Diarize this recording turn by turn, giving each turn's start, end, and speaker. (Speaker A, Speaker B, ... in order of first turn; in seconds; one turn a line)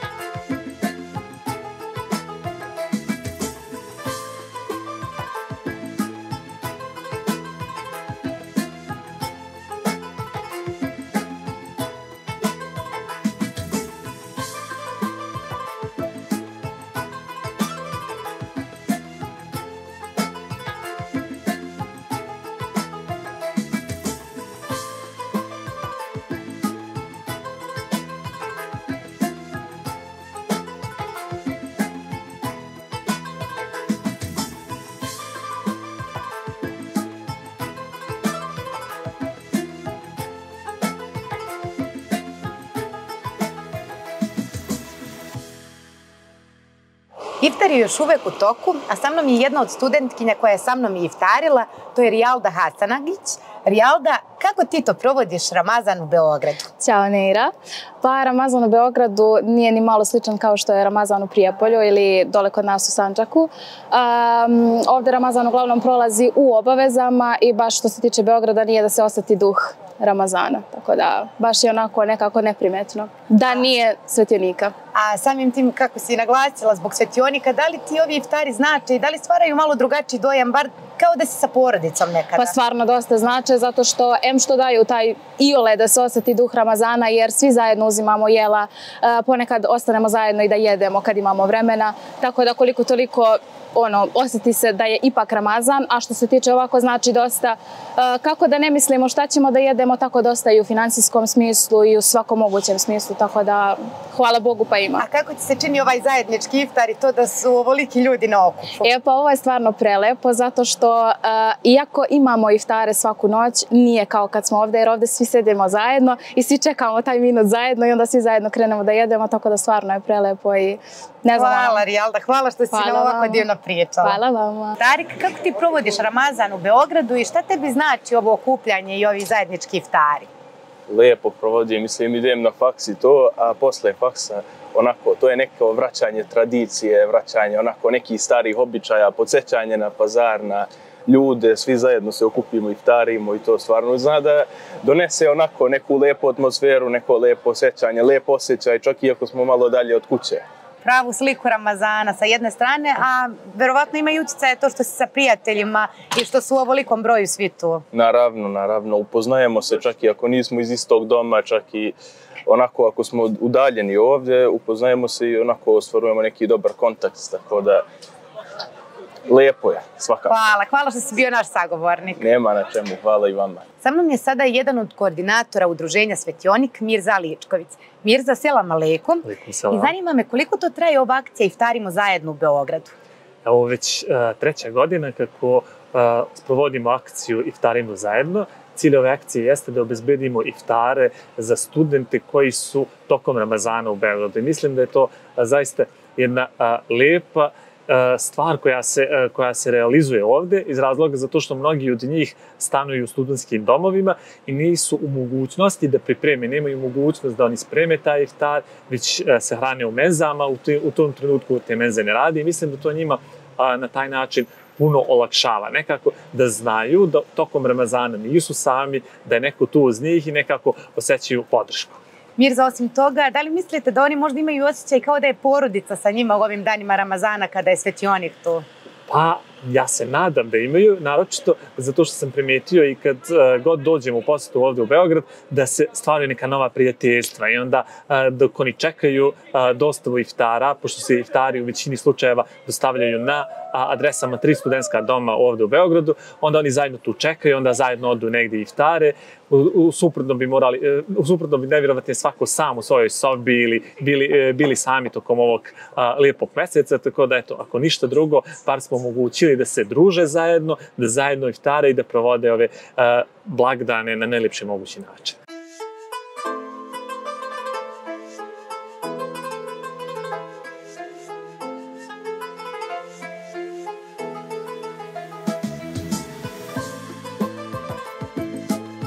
Speaker A: 47.4-56.7
Speaker B: 56.8-74.7
Speaker A: 74.9-82.5
Speaker B: 82.4-105.0
Speaker A: 105.0-108.9
Speaker B: 108.8-121.8
Speaker A: 121.3-124.2
Speaker B: 122.7-123.5
Speaker B: 124.0-124.8
Speaker A: 124.8-130.3
Speaker C: 130.9-150.4
Speaker A: 150.8-157.8
Speaker C: 157.9-162.0
Speaker C: 162.5-167.8
Speaker C: 169.3-170.4
Speaker A: 170.3-172.2
Speaker C: 172.2-173.6
Speaker A: 173.8-182.9
Speaker D: 179.2-179.9
Speaker D: 183.4-222.0
Speaker A: 222.4-228.7
Speaker D: 229.1-265.4